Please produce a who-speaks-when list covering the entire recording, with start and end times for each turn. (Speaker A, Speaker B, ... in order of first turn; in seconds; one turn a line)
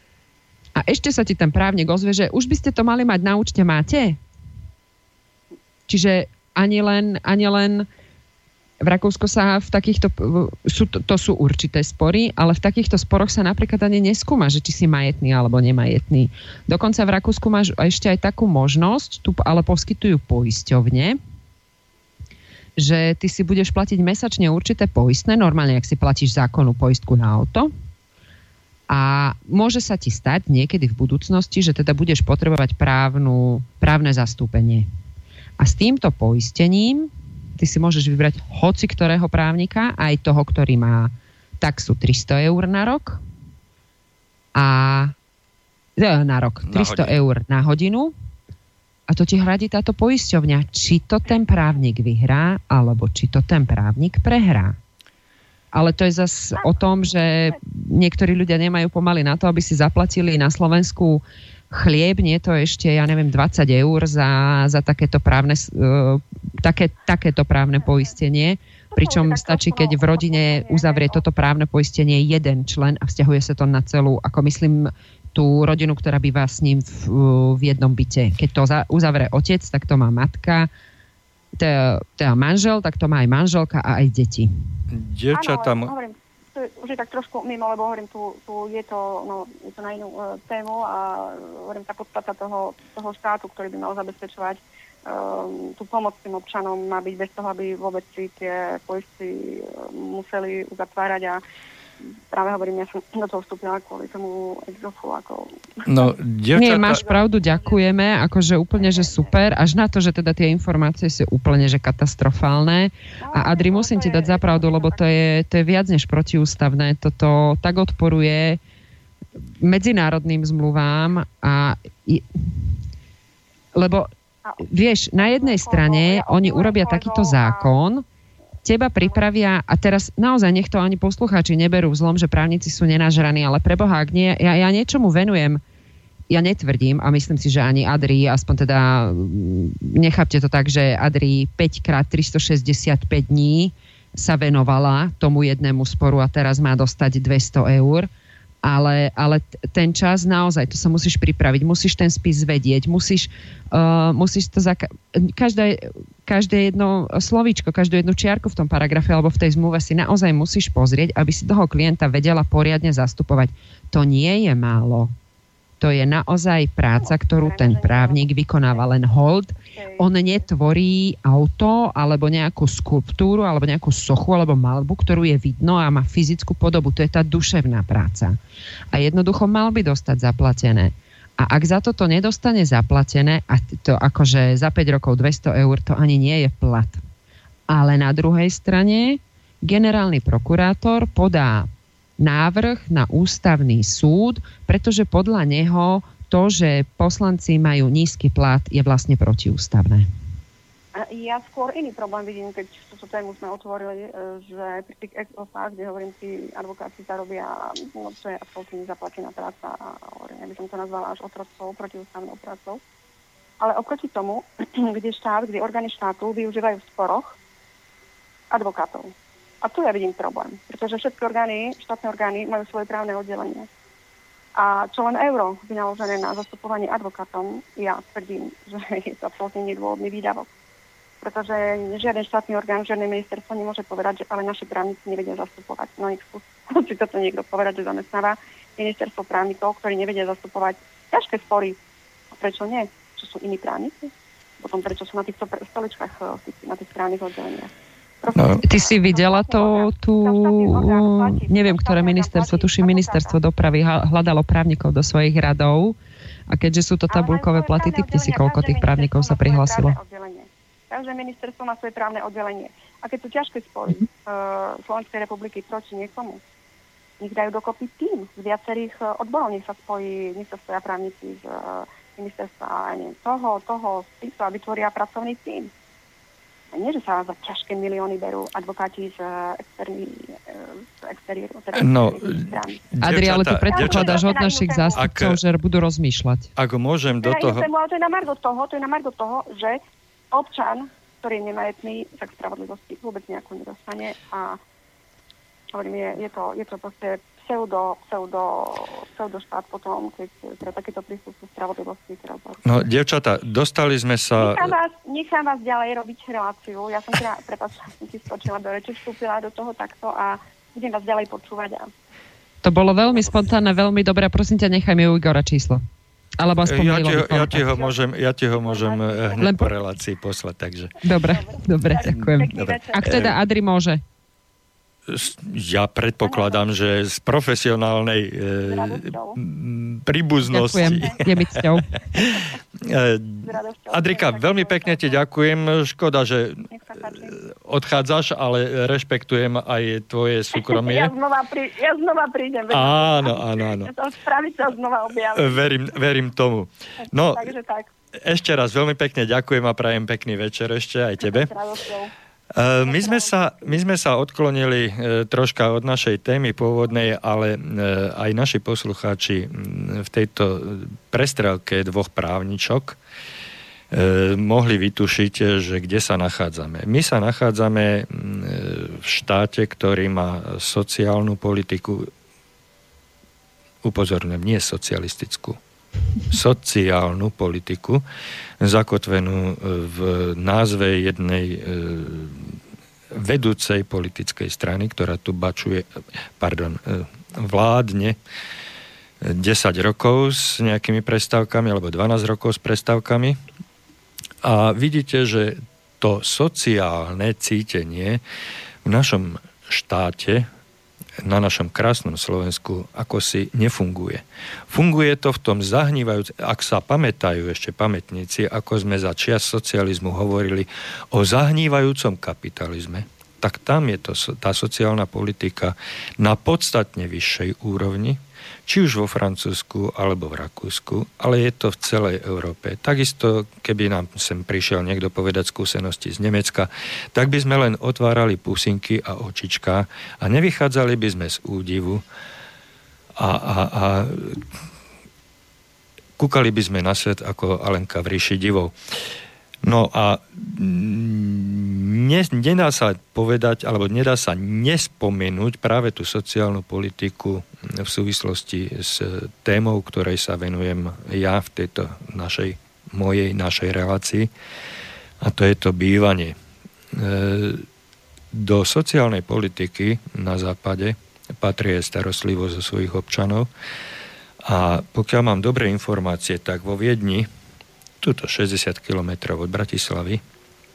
Speaker A: 0.8-4.2
Speaker A: 5.9-7.9
Speaker A: 8.8-21.2
Speaker A: 22.8-27.7
Speaker A: 28.9-34.9
Speaker A: 35.6-43.2
Speaker A: 44.5-45.1
Speaker A: 46.0-48.1
Speaker B: 46.6-47.1
Speaker A: 49.1-54.8
Speaker A: 55.7-80.7
Speaker C: 56.6-56.9
Speaker C: 68.9-71.2
Speaker A: 81.6-84.5
Speaker B: 84.9-85.9
Speaker C: 85.3-101.4
Speaker C: 102.3-106.1
Speaker B: 105.9-107.0
Speaker A: 106.5-118.6
Speaker C: 106.7-107.9
Speaker C: 108.8-109.3
Speaker C: 113.2-115.0
Speaker A: 119.6-122.5
Speaker A: 123.8-124.1
Speaker C: 124.4-127.7
Speaker A: 124.6-128.1
Speaker A: 128.6-135.6
Speaker A: 136.3-148.1
Speaker A: 148.6-165.1
Speaker A: 165.8-178.4
Speaker C: 166.9-168.9
Speaker C: 169.6-170.4
Speaker A: 178.9-187.0
Speaker A: 187.7-191.7
Speaker A: 192.2-200.1
Speaker C: 200.9-212.8
Speaker C: 213.6-217.4
Speaker C: 218.5-223.7
Speaker C: 224.6-230.5
Speaker C: 231.2-241.8
Speaker C: 242.3-247.7
Speaker C: 248.2-253.4
Speaker B: 248.3-248.6
Speaker A: 248.6-256.0
Speaker A: 256.5-259.9
Speaker C: 257.1-266.4
Speaker C: 267.2-275.7
Speaker C: 276.7-282.9
Speaker B: 281.7-284.2
Speaker A: 283.0-286.5
Speaker C: 283.7-285.0
Speaker B: 284.9-285.4
Speaker B: 286.6-287.7
Speaker C: 287.2-289.8
Speaker C: 290.3-294.6
Speaker C: 295.7-302.6
Speaker B: 302.6-304.7
Speaker C: 304.4-311.9
Speaker A: 312.6-315.8
Speaker A: 316.4-317.7
Speaker B: 316.6-320.9
Speaker C: 317.6-318.0
Speaker C: 318.5-319.6
Speaker A: 319.4-319.7
Speaker A: 321.0-324.0
Speaker C: 321.1-323.4
Speaker B: 322.1-323.4
Speaker B: 325.1-336.7
Speaker C: 326.2-326.6
Speaker C: 328.7-329.4
Speaker A: 330.4-331.9
Speaker C: 330.7-331.3
Speaker C: 332.2-332.4
Speaker C: 333.4-335.2
Speaker C: 336.7-337.4
Speaker B: 337.3-341.1
Speaker C: 340.5-345.7
Speaker B: 342.7-343.9
Speaker B: 345.3-347.5
Speaker C: 347.0-347.9
Speaker B: 348.2-351.5
Speaker C: 351.2-352.1
Speaker B: 352.6-363.0
Speaker C: 352.8-353.8
Speaker B: 363.9-372.1
Speaker B: 373.8-375.6
Speaker B: 376.3-378.0
Speaker B: 378.6-382.6
Speaker B: 383.1-385.9
Speaker B: 386.4-388.2
Speaker B: 389.2-393.4
Speaker B: 394.4-398.2
Speaker B: 398.9-400.4
Speaker B: 401.2-432.0
Speaker B: 433.2-434.4
Speaker B: 436.2-438.7
Speaker B: 439.6-454.3
Speaker B: 455.2-456.4
Speaker B: 456.9-457.6
Speaker B: 458.3-463.5
Speaker B: 464.4-467.3
Speaker B: 468.0-470.2